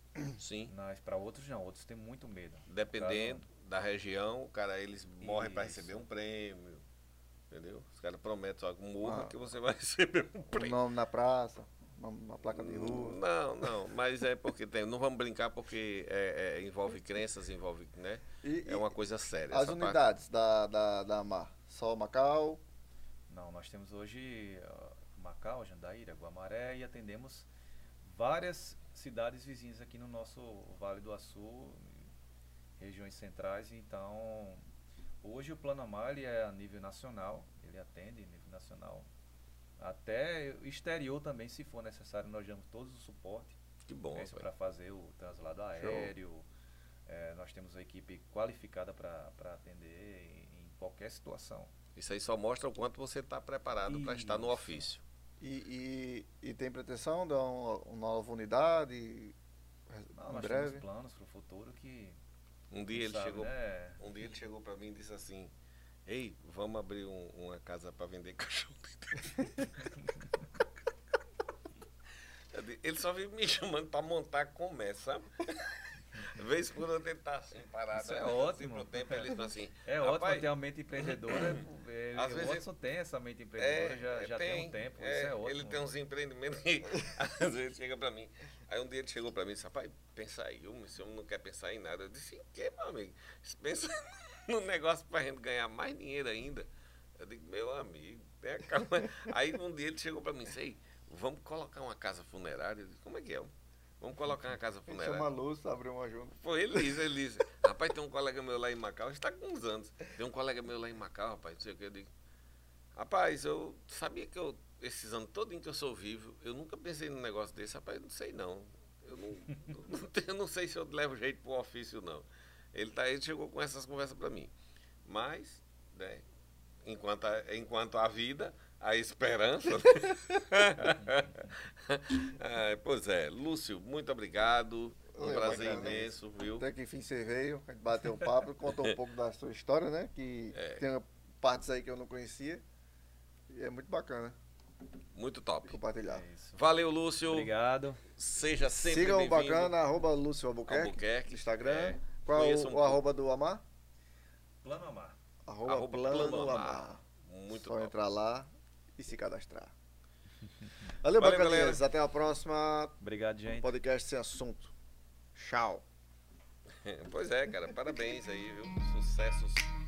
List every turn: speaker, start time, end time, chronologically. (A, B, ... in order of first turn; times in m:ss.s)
0:00.4-0:00.7 A
0:00.7-0:03.4 B
0:02.7-0:06.8 A
0:05.2-0:06.0 B
0:07.5-0:10.8 A
0:09.0-0:09.3 C
0:10.5-0:13.2 C
0:12.5-0:20.0 A
0:18.4-0:18.9 C
0:19.5-0:22.6 C
0:23.3-0:27.5 B
0:28.0-0:32.1 B
0:32.8-0:34.6 B
0:35.2-0:39.1 B
0:39.8-0:43.6 B
0:43.9-0:44.5 A
0:44.1-0:46.4 B
0:45.8-0:46.1 C
0:47.1-0:51.7 B
0:52.0-0:55.0 A
0:53.9-0:54.9 B
0:55.4-0:59.4 C
0:59.9-1:00.8 C
1:00.1-1:02.2 B
1:02.7-1:05.5 A
1:02.9-1:04.0 B
1:06.0-1:09.9 A
1:12.5-1:22.7 A
1:18.0-1:25.9 B
1:23.6-1:45.3 A
1:44.9-1:47.0 C
1:46.4-1:52.1 A
1:53.0-2:04.5 A
2:05.0-2:06.2 A
2:06.8-2:16.7 A
2:15.1-2:22.6 C
2:18.7-2:19.0 A
2:20.5-2:20.8 A
2:23.5-2:24.4 C
2:25.1-2:25.8 A
2:25.7-2:26.2 C
2:26.0-2:26.6 B
2:26.5-2:27.5 A
2:27.3-2:28.0 B
2:28.2-2:29.7 A
2:28.8-2:33.6 C
2:30.7-2:33.0 A
2:34.6-2:35.2 B
2:35.4-2:39.7 C
2:35.7-2:37.9 A
2:41.0-2:43.0 C
2:41.2-2:41.8 A
2:43.0-2:43.8 B
2:43.6-2:44.7 C
2:45.3-2:45.9 C
2:46.8-2:49.7 A